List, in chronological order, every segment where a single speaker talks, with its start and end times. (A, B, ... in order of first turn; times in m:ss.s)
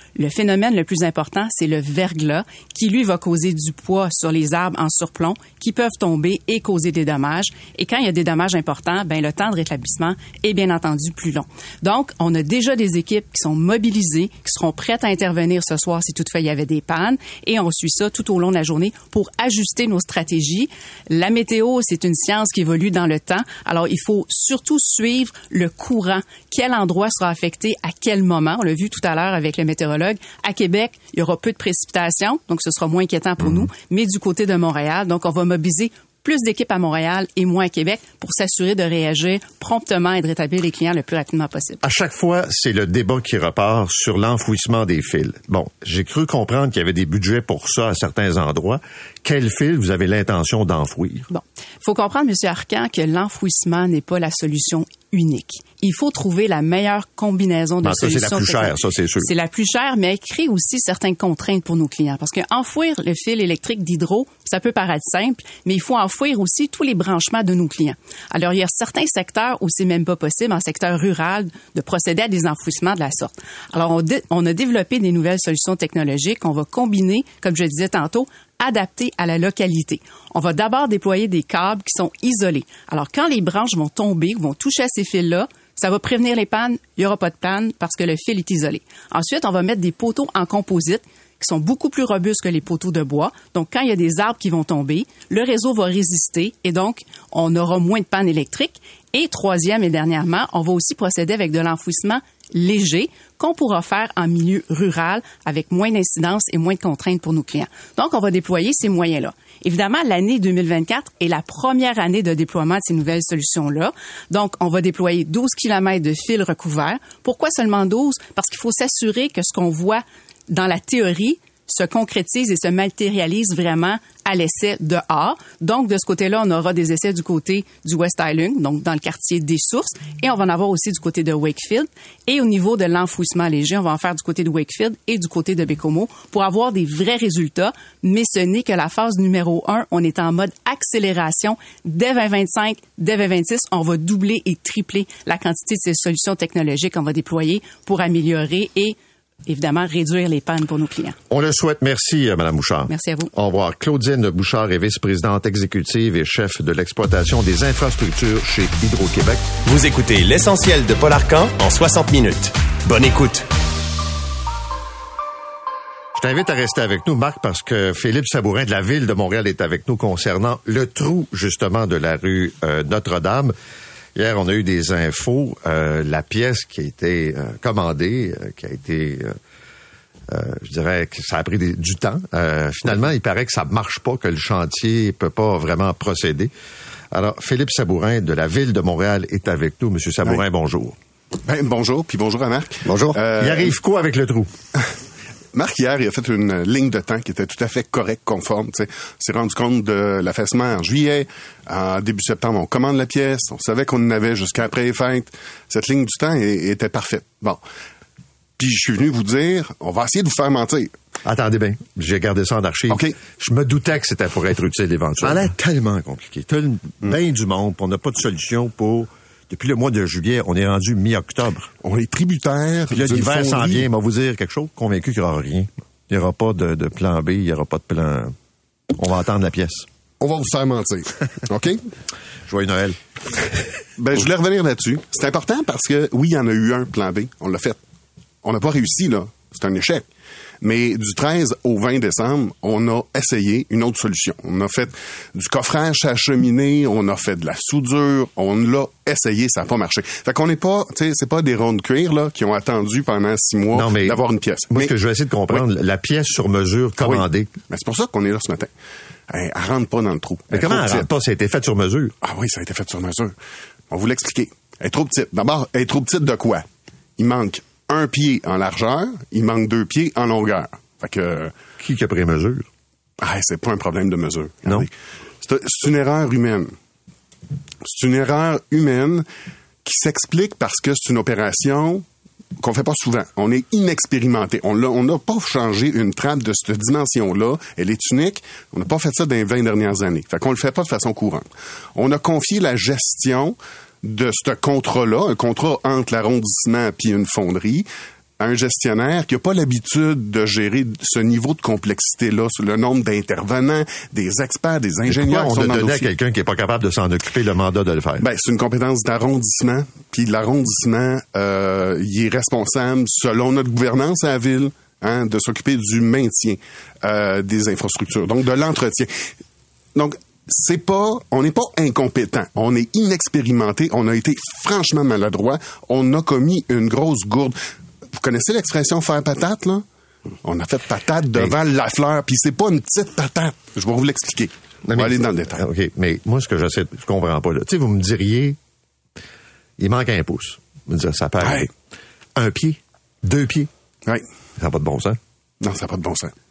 0:00.2-0:41.8 A
0:41.8-0:51.3 B
0:51.3-2:31.2 A
0:57.8-0:59.3 B
2:31.3-2:39.5 B
2:32.9-2:33.3 A
2:39.6-2:43.5 C
2:46.2-2:53.5 B
2:54.1-2:59.4 B
3:00.3-3:06.5 B
3:07.1-3:10.9 B
3:11.4-3:13.7 D
3:13.0-3:14.5 B
3:15.5-3:27.6 D
3:28.6-3:30.9 D
3:31.2-3:41.7 B
3:32.9-3:33.2 D
3:41.8-3:43.9 D
3:42.9-3:48.3 B
3:49.0-3:49.8 B
3:50.2-3:51.8 D
3:52.5-3:53.5 B
3:54.0-3:57.8 D
3:58.4-4:00.0 D
4:00.6-4:14.9 D
4:13.7-4:17.5 B
4:17.0-4:18.7 D
4:19.3-4:21.1 D
4:20.5-4:22.2 B
4:22.2-4:23.3 D
4:23.9-4:31.5 D
4:31.8-4:32.7 B
4:33.2-4:34.9 D
4:35.4-4:36.7 D
4:37.8-4:39.2 D
4:39.8-4:42.0 D
4:42.6-4:57.9 D
4:58.4-5:06.1 D
5:05.1-5:08.2 B
5:08.2-5:19.3 D
5:19.9-5:27.6 D
5:28.1-5:29.8 D
5:30.4-5:35.6 D
5:34.8-5:38.6 B
5:39.8-5:41.7 B
5:41.4-5:41.7 D
5:42.4-5:43.7 B
5:44.6-5:45.2 B
5:45.6-5:46.3 D